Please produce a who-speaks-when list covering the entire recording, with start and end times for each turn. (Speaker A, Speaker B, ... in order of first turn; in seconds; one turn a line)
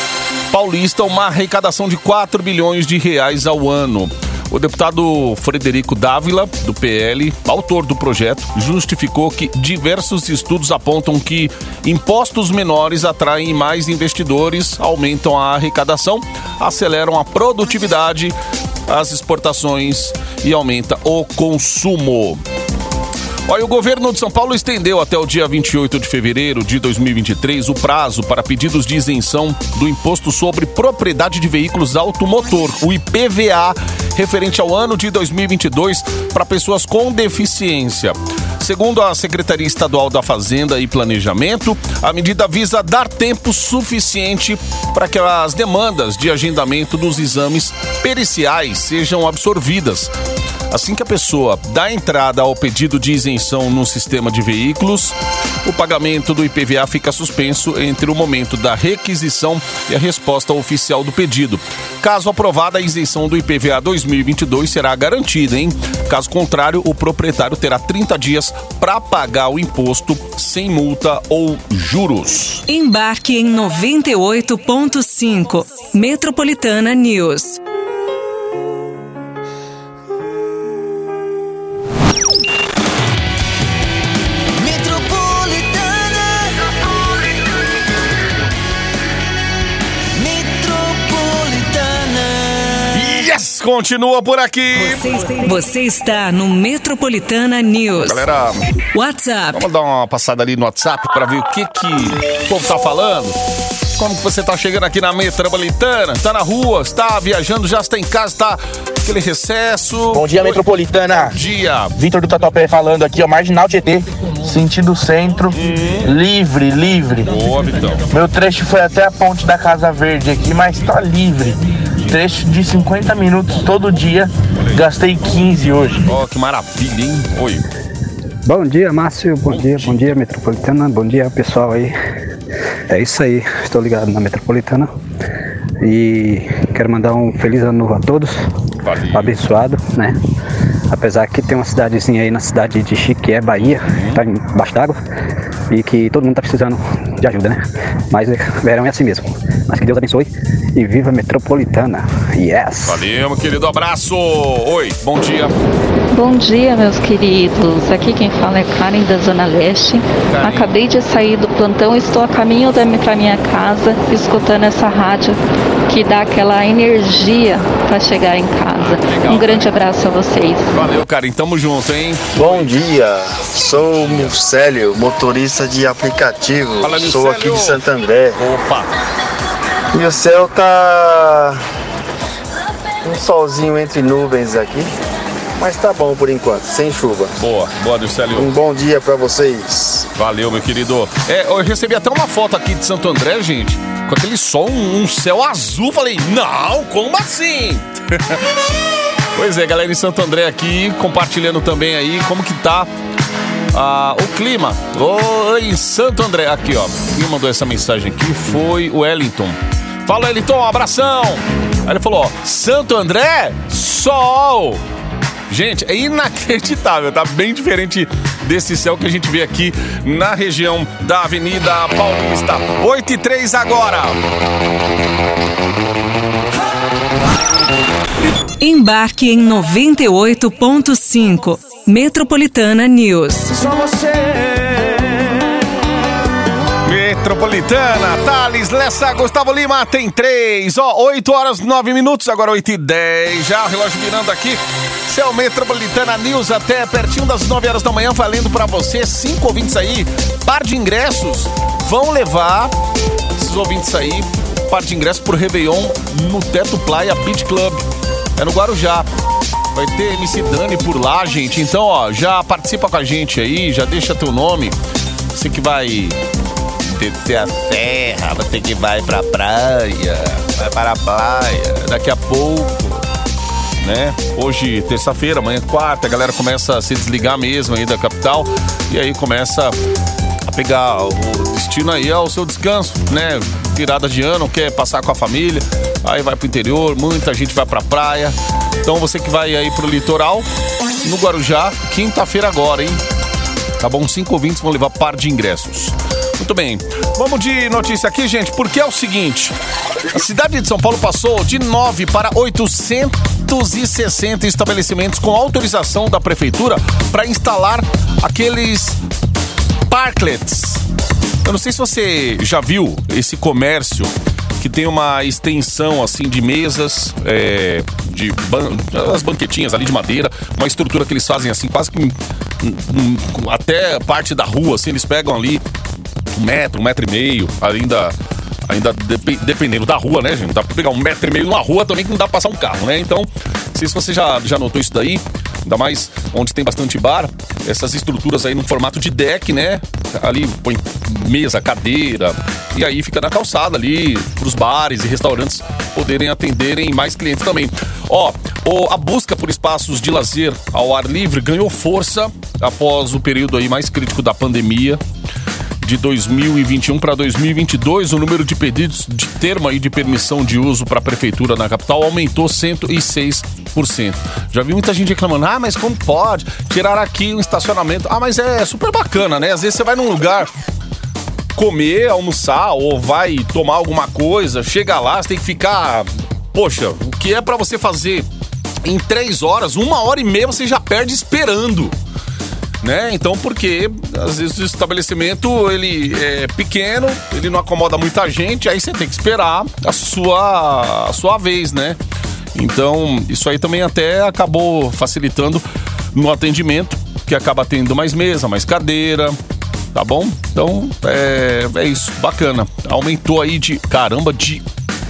Speaker A: 0.5-18.3
Speaker A: 18.9-22.4
Speaker A: 23.5-50.1
Speaker A: 50.7-72.6
Speaker B: 72.7-77.6
Speaker C: 84.6-86.7
Speaker C: 90.2-93.0
Speaker A: 92.9-95.0
Speaker B: 94.8-98.2
Speaker A: 98.0-98.6
Speaker B: 98.9-99.6
Speaker A: 99.5-103.4
Speaker A: 104.0-111.9
Speaker D: 110.1-111.4
Speaker D: 112.0-117.4
Speaker A: 115.5-116.1
Speaker A: 117.2-118.0
Speaker D: 118.1-126.1
Speaker A: 126.0-127.6
Speaker E: 128.4-131.9
Speaker A: 129.5-130.1
Speaker E: 132.9-134.9
Speaker E: 135.8-138.4
Speaker A: 138.8-139.4
Speaker E: 139.1-140.2
Speaker E: 140.9-145.0
Speaker A: 143.6-144.2
Speaker E: 145.7-153.0
Speaker A: 152.8-155.5
Speaker F: 156.1-170.8
Speaker A: 160.2-160.7
Speaker A: 168.7-169.7
Speaker A: 170.7-172.7
Speaker G: 172.3-178.4
Speaker A: 173.8-174.3
Speaker A: 176.8-178.9
Speaker G: 179.9-181.6
Speaker G: 183.0-184.9
Speaker G: 185.6-187.4
Speaker A: 187.4-188.6
Speaker G: 188.3-190.1
Speaker A: 190.2-198.4
Speaker A: 199.4-202.9
Speaker A: 203.7-214.8
Speaker A: 215.5-224.2
Speaker B: 228.6-233.6
Speaker C: 233.6-235.2
Speaker A: 236.8-252.7
Speaker A: 253.4-257.8
Speaker A: 258.4-259.1
Speaker A: 259.7-264.8
Speaker A: 265.3-266.2
Speaker A: 266.9-273.0
Speaker A: 273.8-279.8
Speaker A: 280.5-290.4
Speaker A: 291.0-293.0
Speaker A: 293.8-299.5
Speaker A: 300.1-309.0
Speaker A: 309.9-310.8
Speaker A: 311.4-325.6
Speaker A: 326.3-328.1
Speaker A: 328.7-355.0
Speaker A: 355.8-370.5
Speaker A: 371.6-378.3
Speaker A: 378.8-381.9
Speaker A: 382.8-392.0
Speaker A: 392.5-399.4
Speaker A: 399.9-404.6